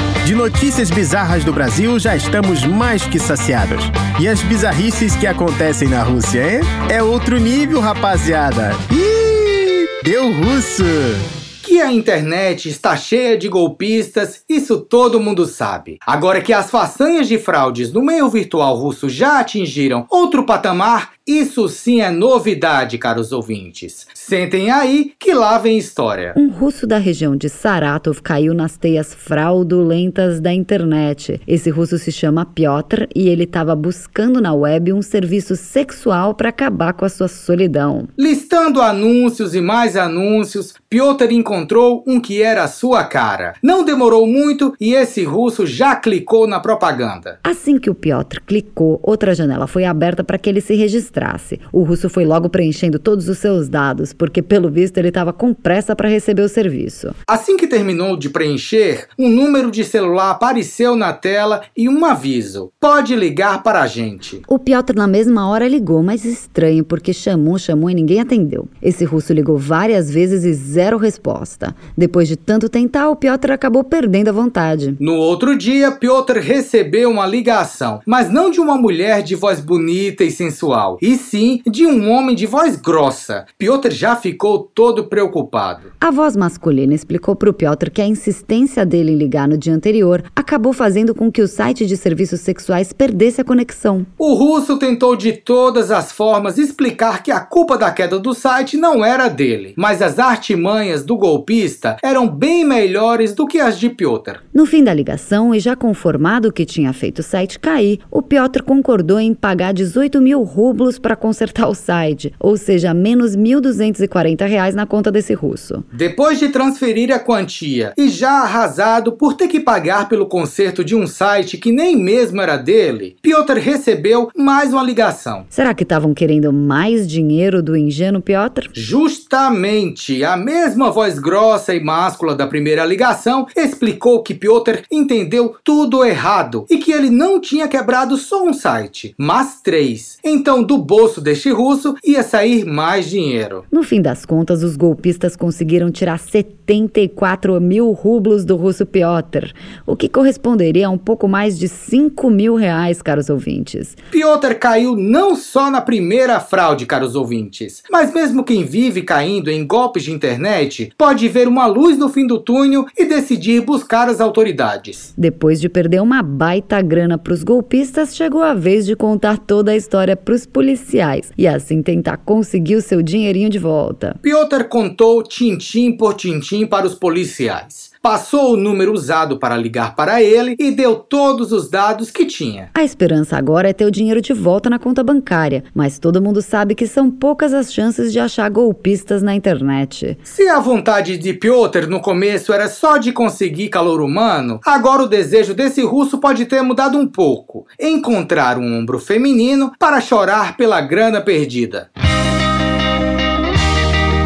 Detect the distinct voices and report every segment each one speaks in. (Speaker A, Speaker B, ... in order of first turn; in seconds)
Speaker A: 0.2-11.3
Speaker B: 11.6-26.4, 38.2-47.4, 57.3-64.4, 75.0-85.9, 94.2-104.4, 115.9-125.5, 128.7-143.6, 154.1-165.1, 174.2-182.7, 190.3-201.9
Speaker C: 26.4-38.1, 47.4-57.2, 64.5-75.0, 86.0-94.1, 104.5-115.8, 125.5-128.7, 143.7-154.0, 165.2-174.2, 182.7-190.2